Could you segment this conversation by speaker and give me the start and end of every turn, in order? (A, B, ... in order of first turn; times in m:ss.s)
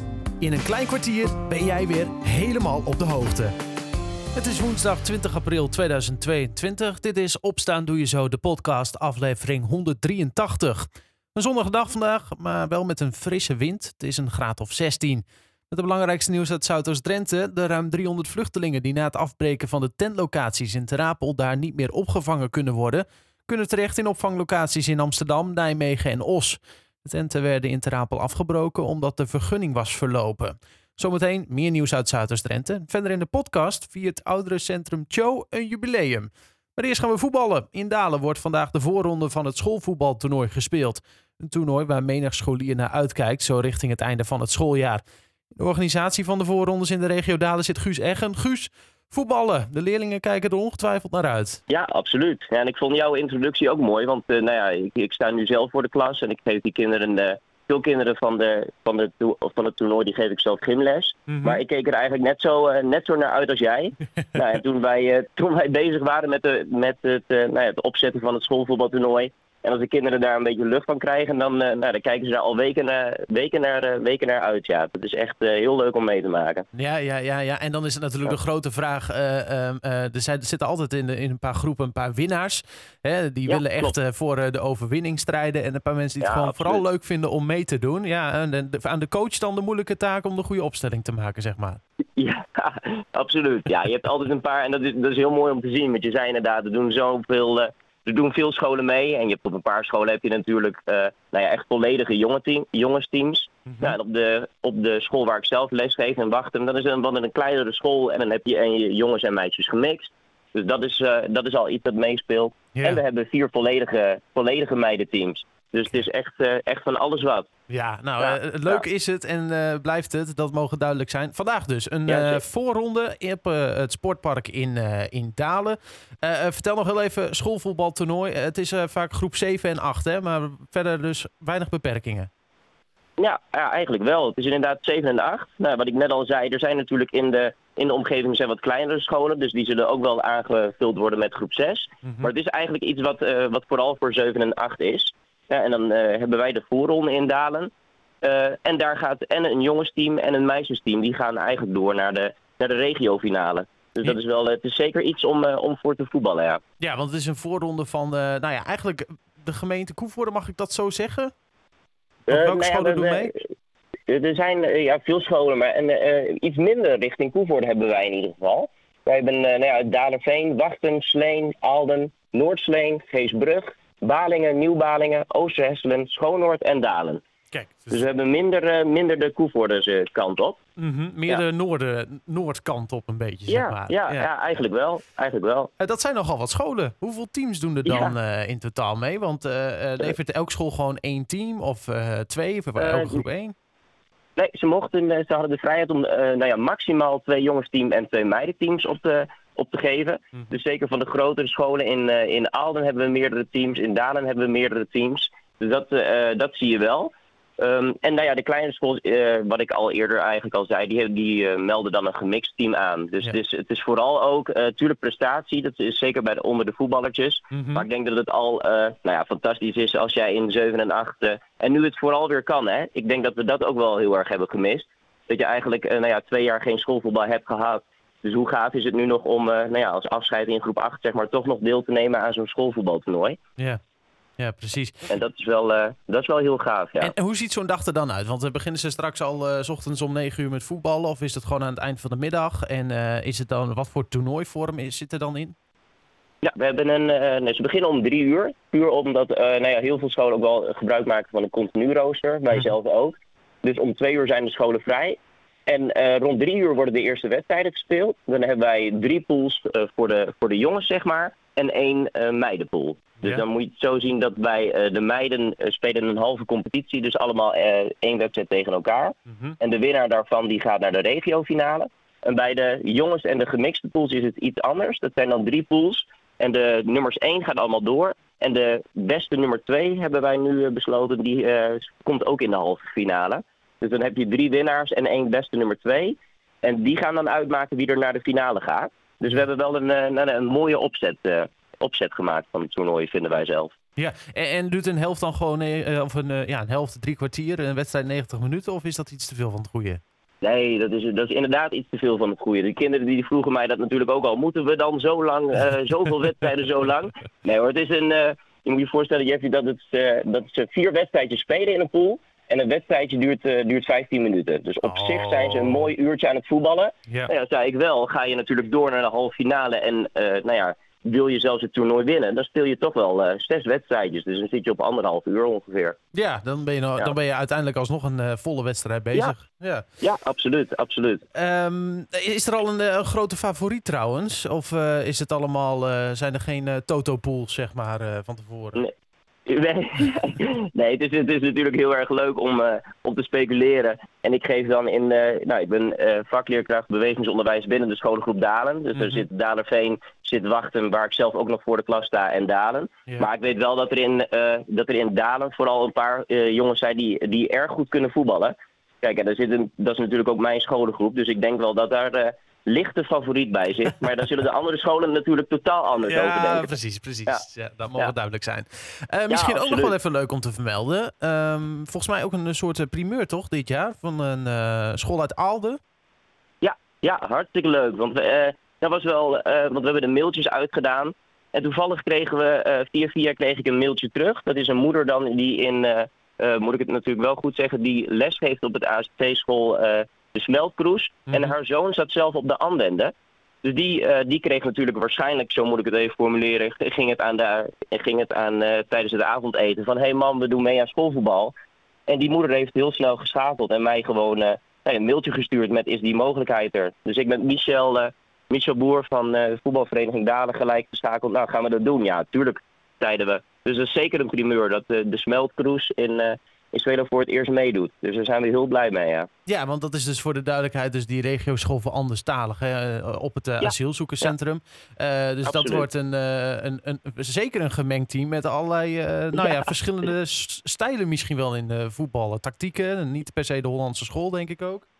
0:00.4-0:03.5 A
0:04.4-0:45.0 A
0:45.6-0:51.6 A
0:51.7-1:16.7 B
1:01.3-1:01.6 A
1:16.7-1:31.8 A
1:23.5-1:23.9 B
1:26.2-1:26.8 B
1:32.2-1:57.5 B
1:43.7-1:44.0 A
1:52.8-1:53.0 A
1:57.7-2:12.3 A
1:58.2-1:58.8 B
2:02.1-2:02.4 B
2:13.2-2:27.7 B
2:22.0-2:22.3 A
2:28.2-2:36.6 B
2:36.8-2:41.3 A
2:42.3-2:43.4 B
2:42.3-2:43.3 A
2:44.1-2:57.2 B
2:57.5-2:58.0 A
2:57.9-3:00.6 B
3:00.8-3:04.3 A
3:03.5-3:05.7 B
3:05.8-3:13.5 A
3:07.8-3:08.2 B
3:12.8-3:13.2 B
3:14.4-3:53.4 B
3:37.5-3:37.9 A
3:54.4-3:55.1 A
3:55.1-3:57.1 B
3:57.0-4:05.6 A
4:06.4-4:53.8 B
4:29.3-4:29.6 A
4:54.0-5:00.0 A
5:00.4-5:26.0 B
5:14.8-5:15.9 A
5:26.1-5:29.8 A
5:30.0-5:31.2 B
5:31.4-5:38.8 A
5:39.5-6:06.7 B
5:49.0-5:49.2 A
6:06.0-6:15.8 A
6:09.3-6:09.9 B
6:16.6-6:33.1 B
6:33.6-6:41.5 B
6:42.1-6:59.3 B
6:59.5-7:14.8 A
7:03.6-7:04.3 B
7:05.5-7:05.9 B
7:09.4-7:09.7 B